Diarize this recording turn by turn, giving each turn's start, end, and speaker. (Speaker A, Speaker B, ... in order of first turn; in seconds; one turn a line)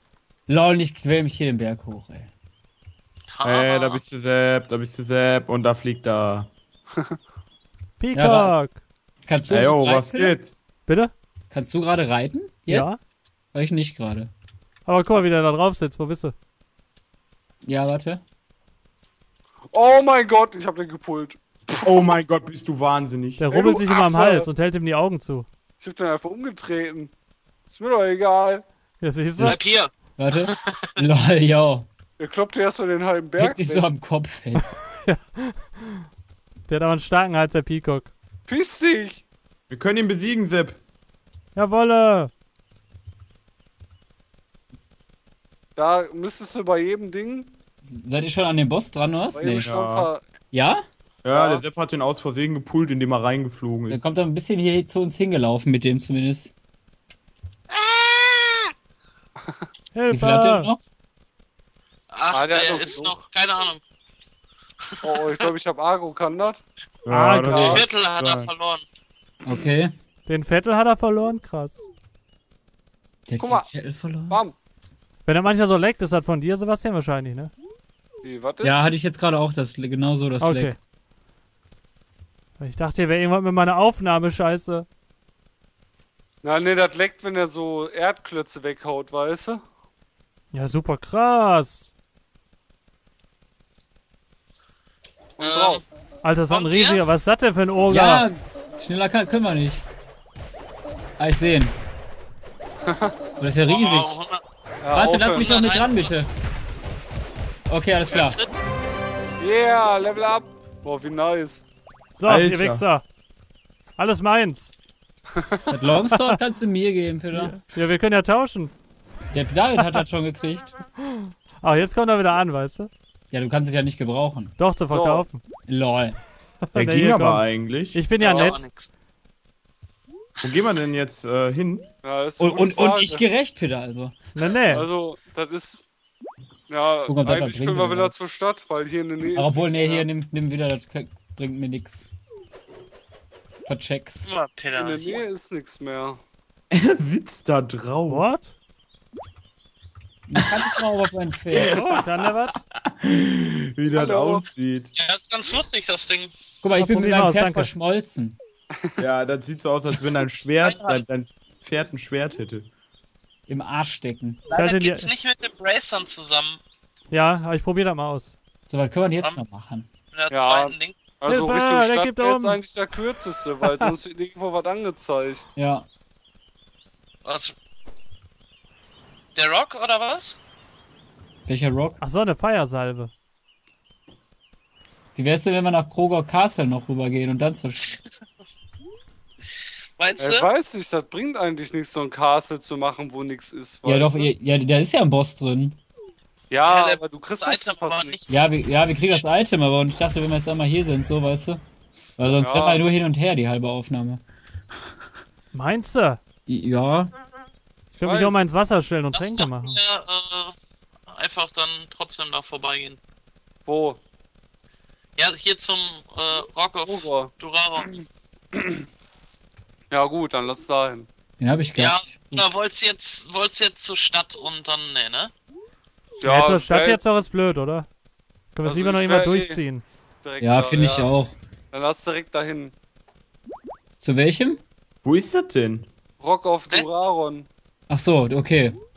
Speaker A: 0.5-2.3
Speaker B: 3.3-4.0
Speaker C: 3.4-6.5
Speaker D: 8.0-8.8
Speaker A: 8.1-8.5
Speaker A: 9.2-10.3
Speaker C: 9.5-10.5
Speaker D: 10.8-11.1
Speaker A: 11.5-13.0
Speaker D: 12.7-13.0
Speaker A: 13.5-14.3
Speaker D: 14.8-16.3
Speaker A: 17.6-18.2
Speaker E: 19.7-21.9
Speaker C: 21.8-23.5
Speaker D: 23.4-25.5
Speaker E: 23.5-24.5
Speaker E: 25.8-27.1
Speaker E: 27.7-28.6
Speaker D: 29.0-29.6
Speaker B: 29.4-29.9
Speaker A: 30.2-31.9
Speaker B: 30.4-30.9
Speaker E: 32.2-33.9
Speaker A: 33.4-34.7
Speaker D: 34.5-36.0
Speaker D: 36.7-38.1
Speaker E: 38.5-39.2
Speaker C: 39.7-40.8
Speaker D: 41.5-42.3
Speaker E: 45.8-47.5
Speaker A: 47.8-49.7
Speaker E: 49.3-50.2
Speaker C: 49.6-50.1
Speaker A: 50.5-50.8
Speaker C: 51.2-54.0
Speaker E: 51.3-51.6
Speaker A: 53.9-56.5
Speaker B: 57.7-58.7
Speaker D: 59.9-60.7
Speaker A: 60.1-60.8
Speaker B: 62.1-63.8
Speaker E: 62.3-63.2
Speaker B: 64.9-65.5
Speaker E: 65.0-66.6
Speaker C: 67.0-68.5
Speaker D: 67.1-67.8
Speaker E: 67.4-67.8
Speaker B: 67.5-68.8
Speaker A: 69.4-69.9
Speaker D: 70.2-71.8
Speaker A: 73.3-74.4
Speaker E: 73.4-73.7
Speaker E: 74.3-74.5
Speaker D: 75.2-77.5
Speaker E: 78.2-78.9
Speaker A: 78.6-80.8
Speaker D: 80.4-80.8
Speaker D: 82.6-84.8
Speaker E: 86.4-89.6
Speaker D: 90.5-91.9
Speaker E: 95.4-95.8
Speaker B: 95.4-95.8
Speaker D: 96.2-98.2
Speaker B: 96.5-97.0
Speaker A: 97.9-99.8
Speaker A: 101.2-101.8
Speaker E: 102.8-103.1
Speaker A: 103.4-104.2
Speaker B: 103.6-104.4
Speaker E: 104.8-105.5
Speaker A: 104.9-106.3
Speaker B: 105.3-106.1
Speaker A: 107.7-108.4
Speaker B: 108.1-108.5
Speaker E: 109.4-111.6
Speaker D: 112.2-113.0
Speaker C: 112.2-112.8
Speaker D: 114.0-114.7
Speaker E: 115.3-115.6
Speaker A: 115.7-117.6
Speaker D: 117.3-118.7
Speaker A: 119.3-120.8
Speaker D: 121.0-122.9
Speaker A: 123.3-124.5
Speaker D: 124.6-125.4
Speaker E: 124.9-125.3
Speaker A: 125.7-126.2
Speaker D: 126.6-128.6
Speaker C: 126.7-128.1
Speaker B: 128.2-128.9
Speaker C: 130.4-131.9
Speaker E: 132.0-133.2
Speaker A: 132.4-134.8
Speaker D: 134.3-134.8
Speaker E: 134.7-135.8
Speaker E: 136.7-140.1
Speaker A: 137.1-138.2
Speaker A: 139.3-142.1
Speaker A: 143.6-144.3
Speaker B: 144.2-145.2
Speaker E: 144.7-146.2
Speaker C: 146.7-148.3
Speaker D: 148.1-148.5
Speaker A: 150.3-151.7
Speaker C: 150.4-150.8
Speaker C: 151.5-154.9
Speaker D: 151.7-152.5
Speaker E: 153.9-154.5
Speaker B: 154.9-156.3
Speaker A: 156.6-158.4
Speaker D: 156.8-157.7
Speaker C: 159.0-162.7
Speaker B: 160.6-161.0
Speaker A: 163.5-164.4
Speaker B: 164.5-166.6
Speaker D: 164.5-165.1
Speaker D: 167.1-168.3
Speaker A: 168.7-169.9
Speaker B: 170.1-171.2
Speaker E: 170.3-175.5
Speaker D: 171.3-172.6
Speaker D: 173.7-173.9
Speaker A: 175.6-175.8
Speaker B: 177.2-177.5
Speaker B: 179.3-180.4
Speaker A: 181.4-182.0
Speaker D: 182.0-183.1
Speaker A: 185.1-188.0
Speaker B: 187.8-188.1
Speaker B: 190.0-190.5
Speaker E: 190.2-194.3
Speaker A: 193.8-195.8
Speaker E: 196.5-198.3
Speaker B: 196.6-198.4
Speaker A: 198.3-201.6
Speaker A: 202.2-204.2
Speaker E: 202.3-202.9
Speaker D: 205.5-206.2
Speaker A: 206.5-207.1
Speaker D: 207.9-209.8
Speaker E: 208.0-208.4
Speaker B: 209.1-210.5
Speaker B: 211.1-213.0
Speaker E: 213.6-214.0
Speaker B: 215.2-217.9
Speaker E: 216.8-217.3
Speaker E: 219.9-221.1
Speaker A: 221.4-222.5
Speaker B: 221.8-225.3
Speaker E: 226.2-227.2
Speaker D: 226.2-227.9
Speaker D: 228.5-229.8
Speaker E: 228.6-229.6
Speaker E: 230.2-231.1
Speaker A: 230.4-231.3
Speaker E: 231.7-232.7
Speaker A: 234.0-234.6
Speaker C: 235.0-235.9
Speaker E: 236.2-237.5
Speaker A: 237.9-238.8